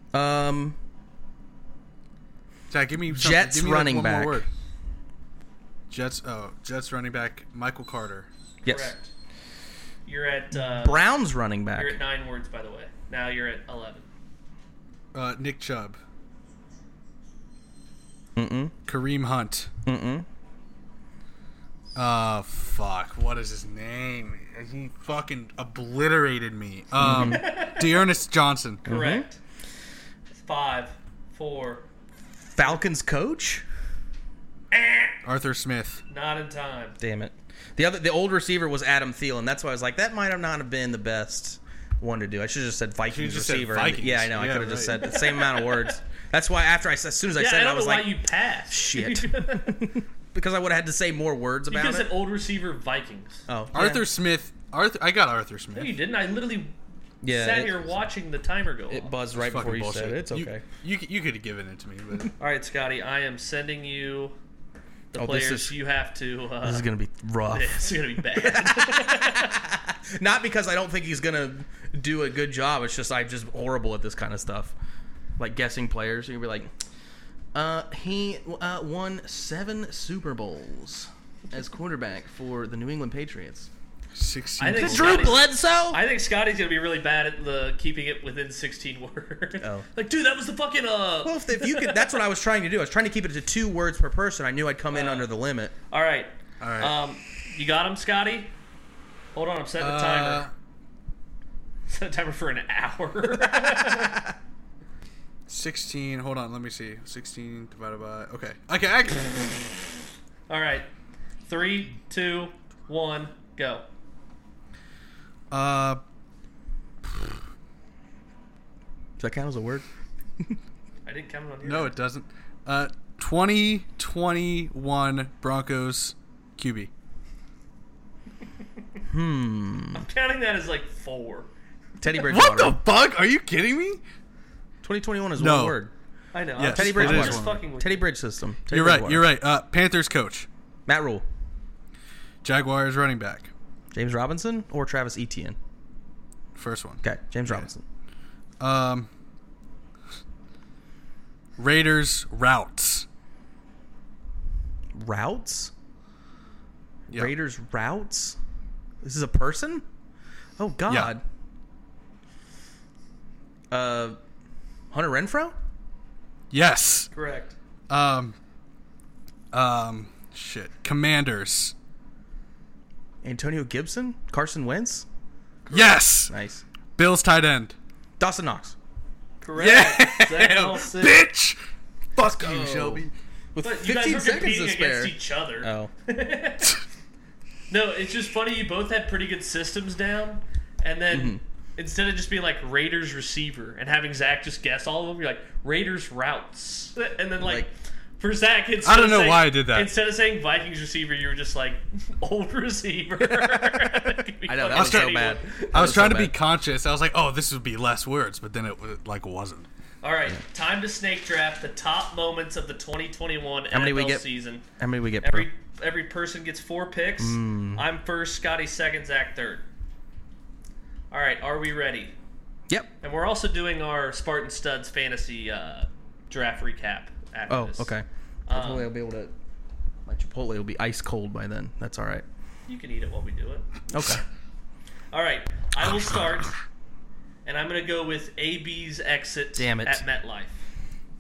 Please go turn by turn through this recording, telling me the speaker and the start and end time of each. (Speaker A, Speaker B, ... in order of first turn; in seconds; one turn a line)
Speaker A: 0.1-0.8
Speaker B: 2.7-4.5
Speaker A: 3.1-4.4
Speaker B: 5.9-8.3
Speaker A: 8.6-8.9
Speaker C: 8.7-9.1
Speaker C: 10.1-11.0
Speaker A: 10.5-12.0
Speaker C: 11.8-14.1
Speaker B: 15.1-16.0
Speaker A: 18.4-18.7
Speaker B: 18.9-19.7
Speaker A: 19.9-20.3
Speaker B: 21.9-28.9
Speaker A: 27.0-27.5
Speaker C: 27.2-28.0
Speaker A: 28.9-29.3
Speaker C: 28.9-29.4
Speaker C: 30.3-31.9
Speaker A: 32.5-33.6
Speaker C: 34.7-35.1
Speaker B: 35.2-36.0
Speaker C: 36.1-37.0
Speaker A: 37.0-52.1
Speaker B: 43.1-45.0
Speaker C: 45.0-46.0
Speaker C: 47.4-49.9
Speaker C: 51.7-53.5
Speaker A: 53.5-54.0
Speaker B: 53.7-56.0
Speaker C: 55.8-56.7
Speaker A: 57.2-57.9
Speaker C: 57.3-59.1
Speaker A: 58.9-60.6
Speaker B: 59.3-62.3
Speaker C: 62.4-64.3
Speaker C: 65.1-66.9
Speaker A: 65.2-65.8
Speaker A: 66.6-74.7
Speaker C: 67.5-69.6
Speaker A: 75.4-76.7
Speaker A: 77.5-83.7
Speaker B: 84.1-85.5
Speaker C: 84.6-92.1
Speaker A: 84.8-86.0
Speaker A: 89.6-89.9
Speaker A: 91.2-95.7
Speaker C: 94.9-95.3
Speaker C: 95.9-98.5
Speaker B: 96.6-97.0
Speaker C: 99.3-100.5
Speaker B: 99.8-100.5
Speaker C: 101.9-104.3
Speaker B: 105.5-109.7
Speaker C: 110.5-110.9
Speaker C: 111.5-113.8
Speaker B: 115.5-116.0
Speaker A: 119.2-119.9
Speaker C: 121.1-122.0
Speaker B: 121.6-126.9
Speaker A: 129.1-130.1
Speaker C: 129.9-131.5
Speaker A: 132.0-132.8
Speaker B: 132.3-134.0
Speaker A: 134.8-135.9
Speaker B: 135.4-135.8
Speaker C: 136.3-138.1
Speaker B: 136.6-137.6
Speaker A: 136.7-139.3
Speaker B: 138.7-140.5
Speaker A: 140.9-141.2
Speaker B: 142.4-143.5
Speaker A: 143.9-145.6
Speaker B: 146.6-147.7
Speaker A: 147.0-147.8
Speaker B: 148.6-149.1
Speaker B: 151.6-153.1
Speaker A: 154.9-155.7
Speaker A: 157.1-158.4
Speaker A: 159.0-159.8
Speaker A: 160.6-161.2
Speaker A: 163.7-164.2
Speaker A: 164.9-165.6
Speaker B: 166.5-167.1
Speaker C: 167.1-167.6
Speaker B: 167.9-168.4
Speaker B: 169.5-171.7
Speaker A: 173.2-175.1
Speaker A: 175.7-176.6
Speaker B: 175.7-176.3
Speaker B: 177.0-177.8
Speaker A: 178.2-178.8
Speaker C: 179.4-181.2
Speaker B: 179.6-181.6
Speaker B: 182.2-183.1
Speaker A: 182.4-185.9
Speaker C: 183.6-186.8
Speaker C: 187.7-205.7
Speaker A: 191.1-191.4
Speaker A: 197.4-197.7
Speaker B: 198.8-199.9
Speaker A: 204.5-206.3
Speaker B: 204.7-209.7
Speaker C: 210.0-214.6
Speaker A: 213.7-215.5
Speaker C: 215.2-219.7
Speaker A: 217.2-217.8
Speaker C: 221.1-222.1
Speaker C: 223.0-227.9
Speaker A: 227.5-229.3
Speaker C: 228.5-228.9
Speaker A: 230.1-232.2
Speaker C: 232.7-233.9
Speaker A: 233.9-234.2
Speaker C: 235.1-236.6
Speaker C: 237.4-240.7
Speaker A: 239.6-240.0